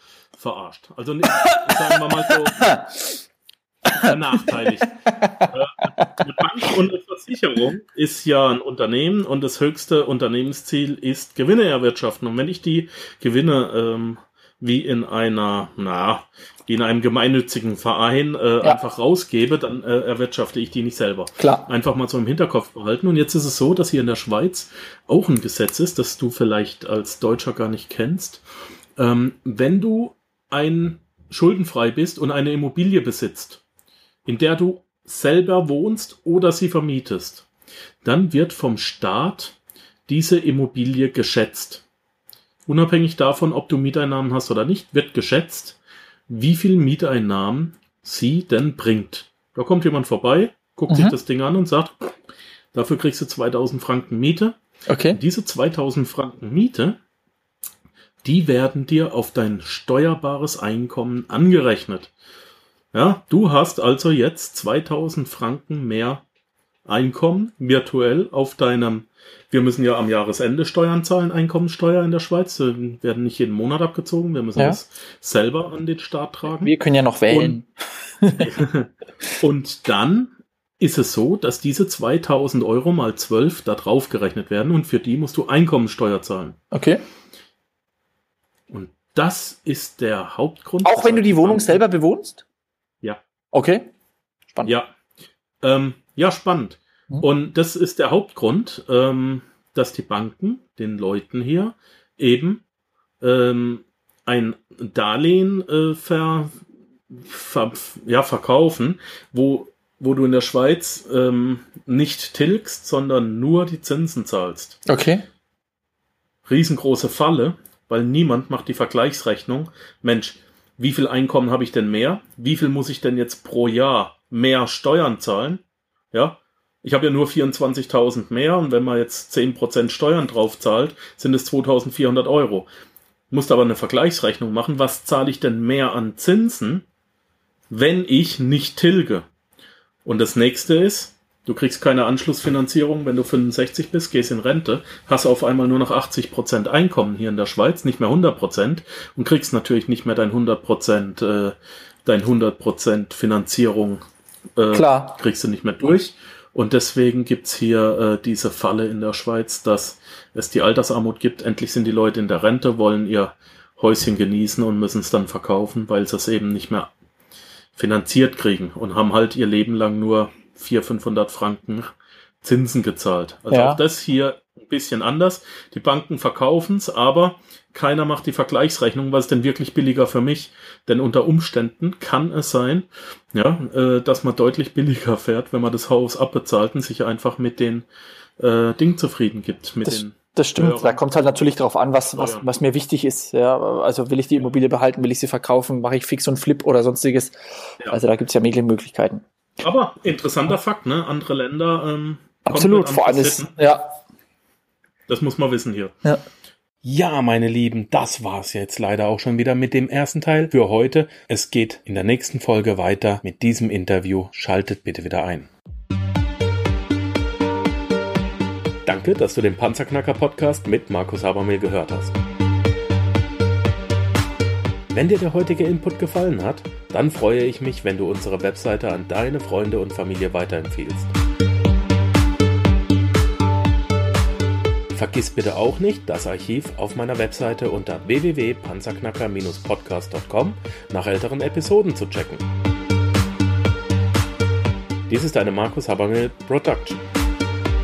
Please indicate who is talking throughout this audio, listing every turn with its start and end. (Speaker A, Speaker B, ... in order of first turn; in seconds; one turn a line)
Speaker A: 0.3-2.7
Speaker A: 3.9-28.4
Speaker B: 21.4-21.7
Speaker A: 29.0-33.6
Speaker A: 34.2-37.5
Speaker A: 38.0-41.8
Speaker A: 42.7-52.0
Speaker B: 50.9-51.2
Speaker A: 52.7-54.6
Speaker B: 54.9-55.2
Speaker A: 55.1-57.0
Speaker A: 58.2-62.1
Speaker A: 62.9-66.2
Speaker A: 66.8-76.7
Speaker B: 76.4-77.7
Speaker A: 77.3-77.6
Speaker B: 78.2-78.5
Speaker A: 78.4-86.6
Speaker B: 86.7-87.0
Speaker A: 88.7-91.8
Speaker B: 90.8-92.4
Speaker B: 93.5-93.9
Speaker A: 95.6-102.6
Speaker A: 103.2-106.5
Speaker A: 107.1-114.8
Speaker B: 114.8-115.2
Speaker A: 116.5-132.7
Speaker A: 133.3-136.8
Speaker A: 137.7-139.2
Speaker A: 140.0-154.0
Speaker A: 154.6-166.9
Speaker B: 154.7-155.2
Speaker A: 167.7-171.9
Speaker A: 172.4-187.8
Speaker B: 173.5-173.8
Speaker A: 188.4-191.0
Speaker B: 189.8-197.3
Speaker A: 192.2-192.4
Speaker B: 197.9-199.2
Speaker A: 199.6-203.5
Speaker B: 202.4-203.9
Speaker A: 205.1-205.9
Speaker A: 206.8-215.5
Speaker A: 218.8-222.1
Speaker A: 224.9-231.1
Speaker A: 234.9-242.5
Speaker A: 245.1-247.0